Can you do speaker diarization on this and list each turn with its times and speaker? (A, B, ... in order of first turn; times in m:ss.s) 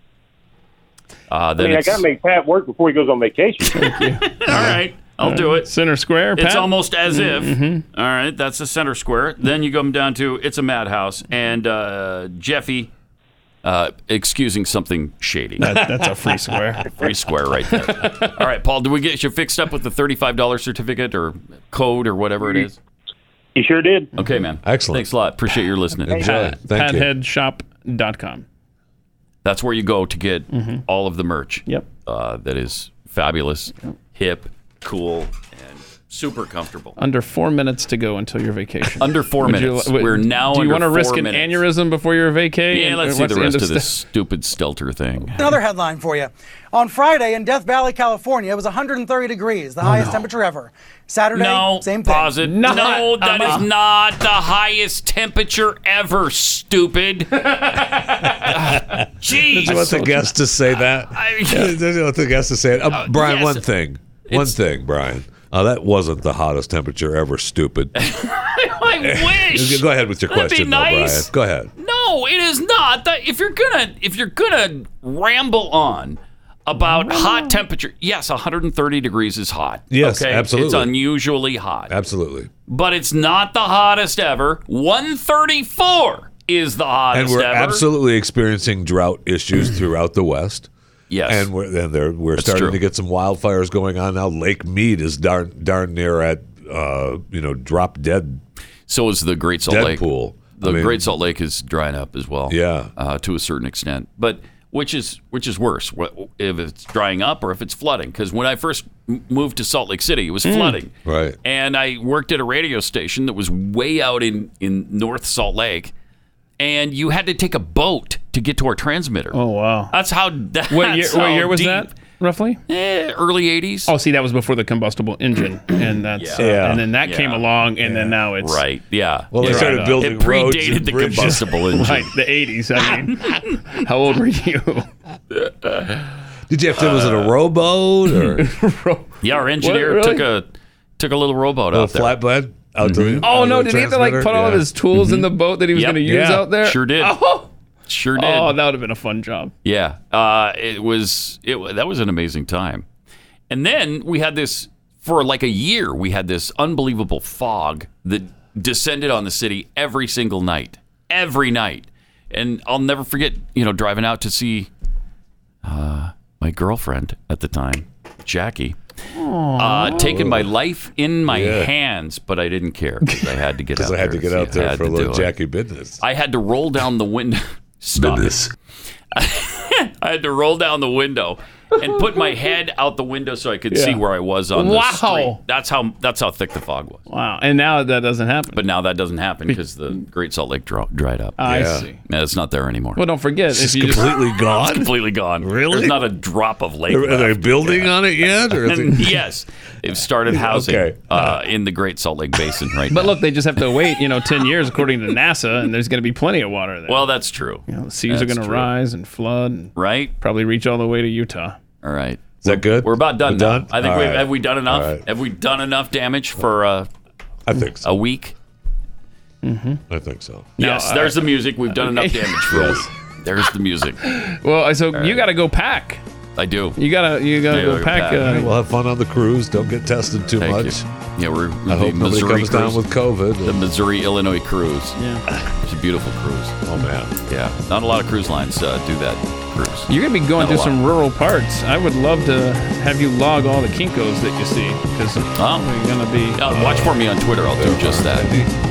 0:01.3-0:02.0 A
0:01.6-0:03.7 B
0:03.7-0:05.7 A
0:03.7-0:07.8 C
0:06.4-0:12.9 A
0:13.6-0:15.8 A
0:15.6-0:16.9 C
0:17.0-0:22.8 A
0:17.8-0:18.1 C
0:23.5-0:24.1 B
0:24.2-0:26.5 A
0:24.6-0:25.0 D
0:26.0-0:27.1 D
0:26.2-0:28.4 C
0:29.4-0:37.0 A
0:30.5-0:30.8 C
0:37.0-0:43.9 C
0:39.0-0:41.6 A
0:42.7-0:45.4 A
0:45.2-0:45.5 C
0:45.4-0:52.3 E
0:49.8-0:50.2 C
0:51.3-1:00.1 A
0:52.4-0:53.6 C
0:57.5-0:58.3 C
0:58.4-1:08.0 D
0:59.6-1:00.3 C
1:01.1-1:01.8 A
1:02.9-1:03.6 A
1:04.3-1:04.6 A
1:08.0-1:21.9 A
1:09.0-1:11.7 D
1:16.8-1:17.6 C
1:19.9-1:20.9 D
1:21.9-1:22.5 D
1:22.7-1:27.8 A
1:27.1-1:30.7 D
1:31.1-1:31.5 A
1:31.2-1:38.4 D
1:32.4-1:32.8 A
1:38.9-1:55.9 A
1:39.7-1:41.1 D
1:42.5-1:42.9 D
1:50.4-1:50.8 C
1:51.0-1:51.4 D
1:56.6-1:59.4 A
1:59.3-1:59.9 C
1:59.9-2:01.9 A
2:00.7-2:02.6 C
2:02.7-2:03.9 A
2:03.9-2:08.6 C
2:06.2-2:07.5 A
2:06.4-2:06.8 D
2:07.8-2:08.1 D
2:08.4-2:12.1 A
2:09.3-2:11.5 D
2:09.4-2:10.0 C
2:11.7-2:14.9 C
2:15.3-2:16.0 A
2:16.5-2:18.4 D
2:16.8-2:17.3 A
2:18.1-2:20.2 C
2:19.2-2:20.5 A
2:21.0-2:22.2 A
2:21.7-2:24.6 D
2:22.8-2:23.2 A
2:23.2-2:27.5 C
2:24.9-2:27.2 A
2:26.0-2:26.4 D
2:27.9-2:28.6 A
2:28.2-2:29.5 C
2:29.6-2:32.8 A
2:33.5-2:44.7 A
2:45.6-2:48.8 A
2:49.1-2:50.2 C
2:49.6-2:55.3 A
2:50.0-2:50.5 D
2:51.2-2:51.7 D
2:53.8-2:56.0 D
2:56.0-2:58.5 A
2:58.0-2:58.5 D
2:59.1-3:07.0 A
3:03.7-3:04.0 C
3:04.5-3:05.4 C
3:07.1-3:08.6 C
3:08.5-3:11.4 A
3:11.4-3:12.0 C
3:11.4-3:11.8 D
3:12.0-3:13.0 A
3:13.0-3:14.1 C
3:13.5-3:16.0 D
3:14.5-3:23.2 A
3:16.9-3:19.2 D
3:20.3-3:21.4 D
3:22.9-3:27.1 C
3:26.9-3:28.7 A
3:27.7-3:31.6 C
3:29.8-3:30.1 A
3:31.8-3:36.9 A
3:32.4-3:35.0 D
3:37.5-3:37.8 D
3:37.8-3:38.3 A
3:39.4-3:39.8 C
3:39.9-3:40.5 D
3:40.6-3:41.2 C
3:40.6-3:44.0 A
3:41.7-3:42.7 C
3:42.5-3:42.8 D
3:44.0-3:46.0 C
3:44.9-3:45.2 A
3:46.4-3:46.8 A
3:46.8-3:48.5 C
3:47.5-3:48.4 A
3:48.2-3:50.8 D
3:50.4-3:52.8 A
3:51.7-3:53.6 D
3:53.4-3:56.6 A
3:55.0-3:55.2 C
3:56.6-3:57.1 D
3:57.2-4:00.8 A
3:59.9-4:06.4 C
4:05.4-4:05.7 A
4:06.4-4:08.3 A
4:06.4-4:07.0 D
4:07.5-4:08.5 D